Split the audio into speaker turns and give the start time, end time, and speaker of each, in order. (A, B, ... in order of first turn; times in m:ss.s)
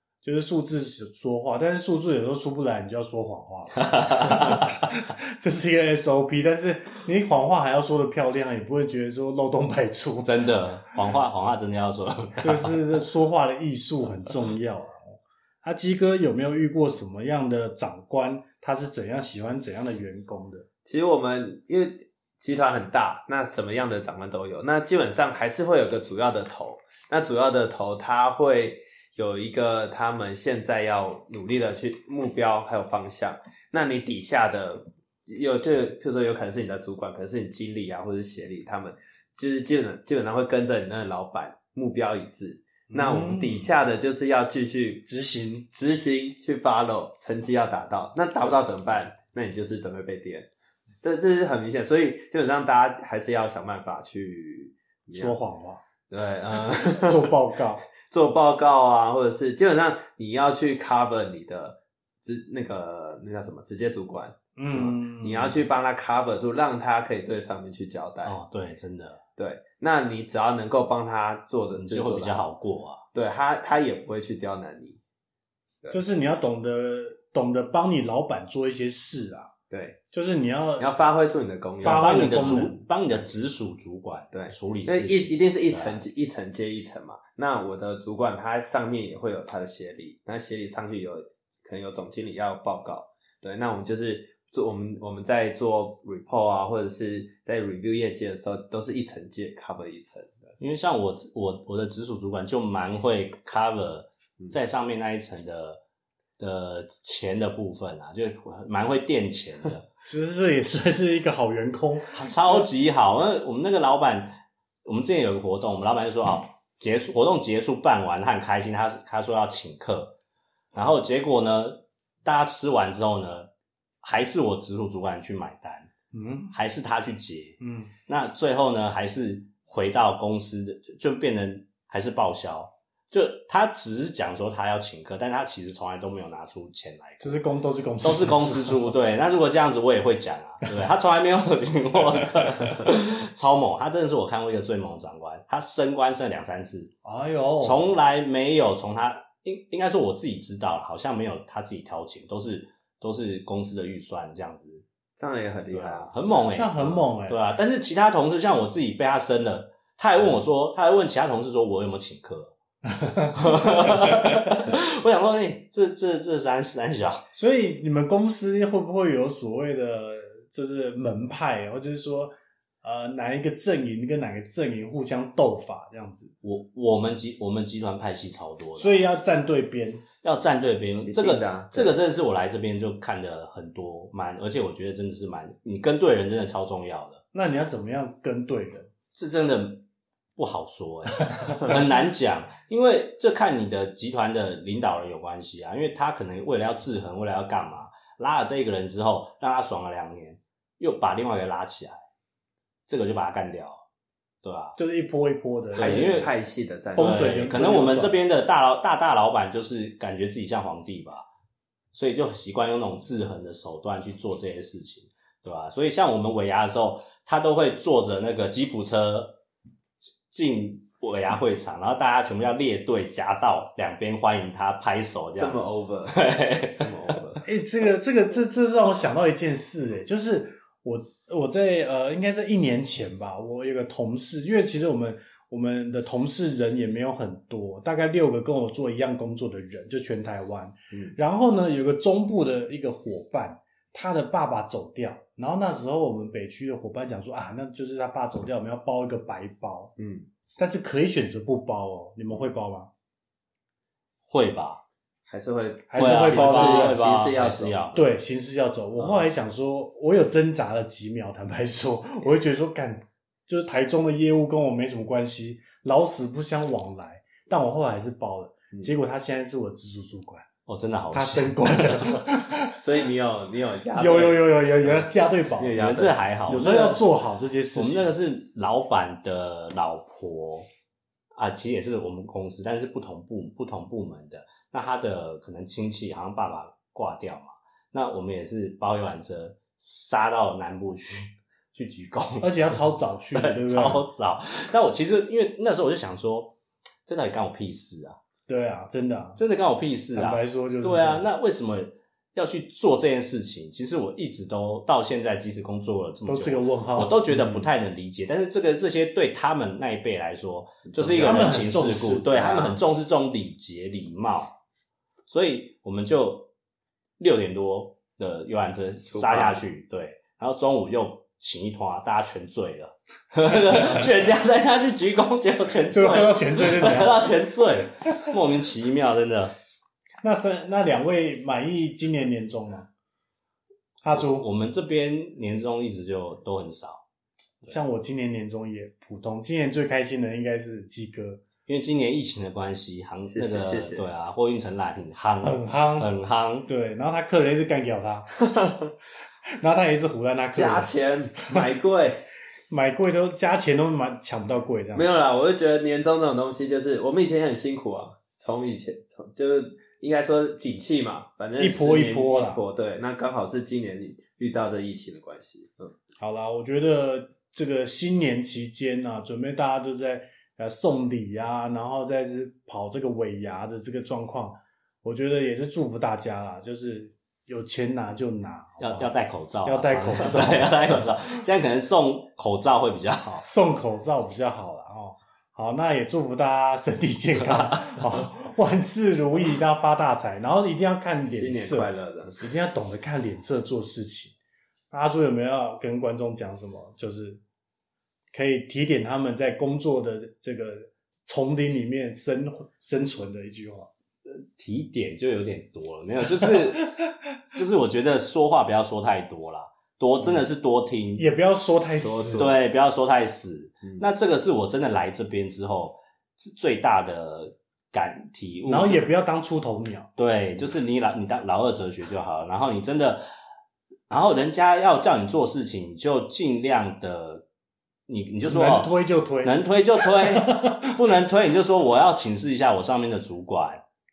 0:00.2-0:10.4 A
0:03.9-0:04.7 B
0:10.2-0:12.8 B
0:12.4-0:20.6 A
0:20.8-0:45.1 C
0:42.9-0:43.7 A
0:45.1-0:45.7 A
0:45.7-0:50.5 C
0:51.0-0:55.4 C
0:55.1-0:55.8 A
0:56.1-0:57.3 C
0:56.9-0:57.8 A
0:58.0-1:08.4 C
1:04.6-1:05.6 A
1:08.2-1:09.2 B
1:09.4-1:12.5 C
1:11.8-1:13.0 B
1:13.1-1:15.0 C
1:15.9-1:19.5 A
1:19.7-1:20.0 C
1:20.1-1:20.9 A
1:20.8-1:22.8 C
1:21.8-1:22.8 A
1:21.8-1:26.0 B
1:24.3-1:40.5 C
1:40.6-1:45.8 B
1:46.4-1:49.9 B
1:50.1-1:52.6 A
1:52.1-2:00.1 B
2:00.7-2:03.5 B
2:04.0-2:05.9 B
2:06.1-2:06.5 A
2:06.5-2:17.4 B
2:07.6-2:07.9 A
2:17.2-2:18.9 A
2:18.0-2:26.9 B
2:27.0-2:27.8 A
2:27.6-2:34.8 B
2:35.2-2:36.1 C
2:35.7-2:42.5 B
2:36.5-2:37.4 A
2:43.0-2:44.5 A
2:43.3-2:47.2 B
2:47.3-2:56.3 A
2:56.4-2:59.0 B
2:58.8-3:00.0 A
3:00.2-3:07.2 B
3:01.0-3:01.9 C
3:07.3-3:08.9 A
3:09.1-3:09.8 B
3:10.4-3:22.0 B
3:22.9-3:23.8 B
3:24.4-3:24.8 B
3:24.8-3:26.3 A
3:25.8-3:26.3 B
3:25.8-3:27.5 C
3:27.0-3:28.1 A
3:27.0-3:31.2 B
3:31.9-3:39.4 B
3:40.3-3:47.2 B
3:45.4-3:47.4 C
3:47.4-4:09.9 A
4:00.9-4:01.2 C
4:10.0-4:10.3 C
4:10.6-4:12.9 A
4:14.3-4:14.8 B
4:15.3-4:18.0 C
4:15.9-4:17.0 A
4:16.0-4:18.0 B
4:17.9-4:30.4 A
4:30.6-4:32.2 B
4:31.1-4:32.8 A
4:32.8-4:36.2 C
4:34.0-4:35.8 A
4:35.7-4:37.0 B
4:36.5-4:38.1 A
4:37.8-4:40.7 B
4:41.3-4:52.8 B
4:52.4-4:54.0 A
4:53.3-4:56.5 B
4:57.0-4:58.2 B
4:58.5-4:59.4 A
4:59.4-5:14.5 B
5:00.1-5:01.2 A
5:06.2-5:07.2 A
5:07.3-5:07.6 C
5:10.8-5:11.7 C
5:11.2-5:12.8 A
5:15.3-5:16.5 B
5:17.2-5:29.5 B
5:19.1-5:19.6 C
5:25.9-5:27.3 A
5:30.2-5:32.9 A
5:34.0-5:34.4 A
5:34.1-5:37.0 B
5:37.6-5:41.4 A
5:41.6-5:46.7 B
5:43.3-5:44.0 C
5:45.4-5:46.1 A
5:46.7-5:48.3 A
5:48.5-5:48.8 C
5:49.6-5:51.6 A
5:50.5-5:52.2 C
5:52.7-5:55.1 A
5:55.0-6:05.9 C
6:01.6-6:02.6 A
6:06.2-6:19.1 A
6:18.8-6:23.4 B
6:19.6-6:20.8 A
6:23.4-6:34.3 A
6:31.3-6:32.4 C
6:34.9-6:37.4 A
6:38.3-6:43.9 A
6:44.2-6:46.9 B
6:47.5-6:51.2 B
6:51.2-6:52.5 A
6:51.9-6:52.5 C
6:52.3-6:59.0 B
6:58.6-7:00.1 A
7:00.2-7:03.2 B
7:04.1-7:07.4 B
7:08.1-7:13.8 B
7:08.4-7:11.0 A